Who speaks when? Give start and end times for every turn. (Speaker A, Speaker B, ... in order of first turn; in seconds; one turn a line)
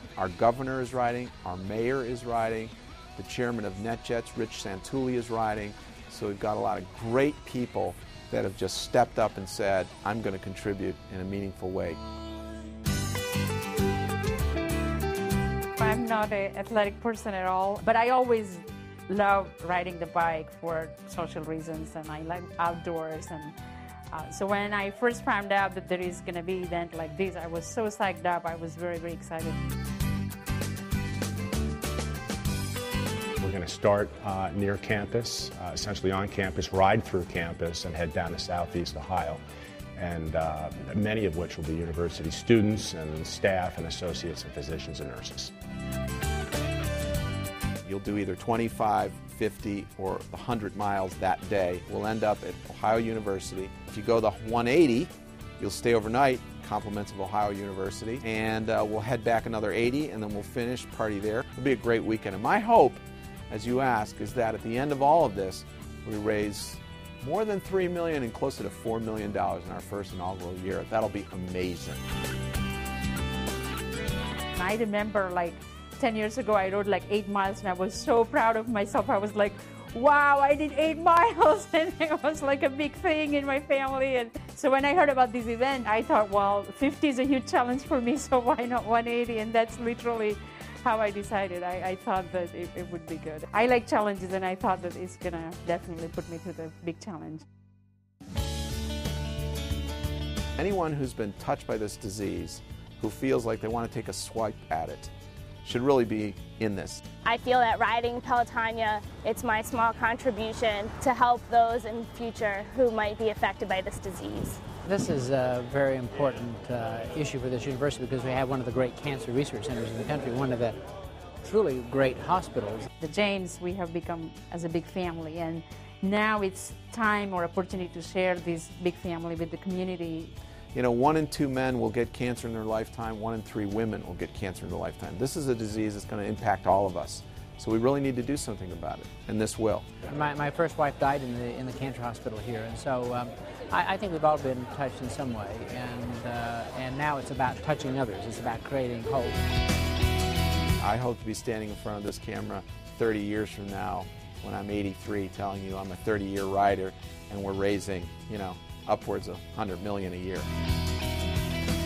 Speaker A: 0.2-12.0
Speaker B: 15.8-23.6
Speaker B: 24.1-29.6
Speaker C: 33.4-39.4
Speaker C: 40.0-45.5
Speaker A: 47.8-72.0
Speaker B: 74.5-97.4
Speaker A: 100.6-105.1
Speaker A: 105.6-107.0
Speaker D: 107.2-114.6
Speaker E: 114.8-120.8
Speaker E: 121.4-122.9
Speaker B: 123.0-130.3
Speaker A: 130.7-139.9
Speaker E: 140.1-149.3
Speaker A: 150.8-160.5